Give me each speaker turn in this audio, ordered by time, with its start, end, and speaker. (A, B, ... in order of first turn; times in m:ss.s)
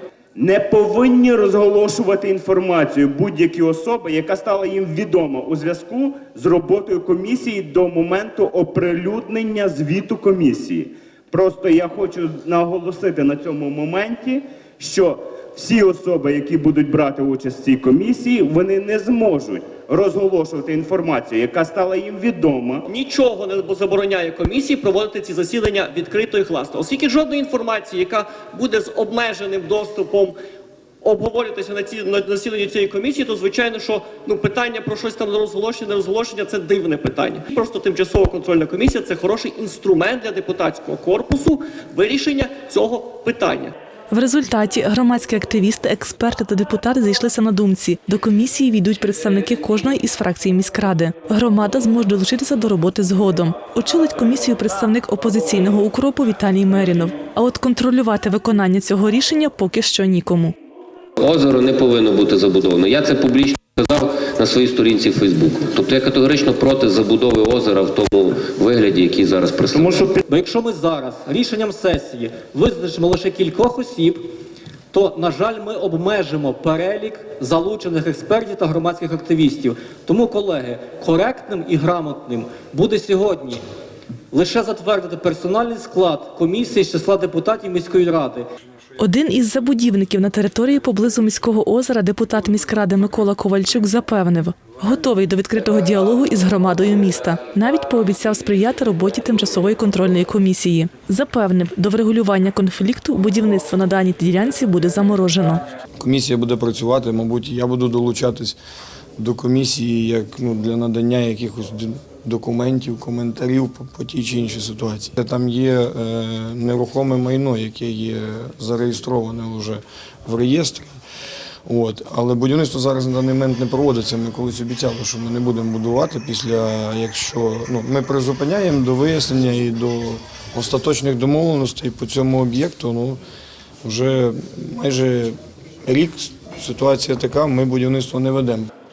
0:00.4-0:22.8 A
0:22.9-0:30.4 B
0:31.0-0:43.7 B
0:44.1-1:00.6 C
1:01.2-1:10.1 D
1:10.3-1:14.3 E
1:14.9-1:23.6 E
1:24.3-1:28.5 E
1:29.0-1:45.6 C
1:46.0-1:48.6 F
1:49.2-2:01.0 F
2:01.7-2:13.2 F
2:13.8-2:18.7 F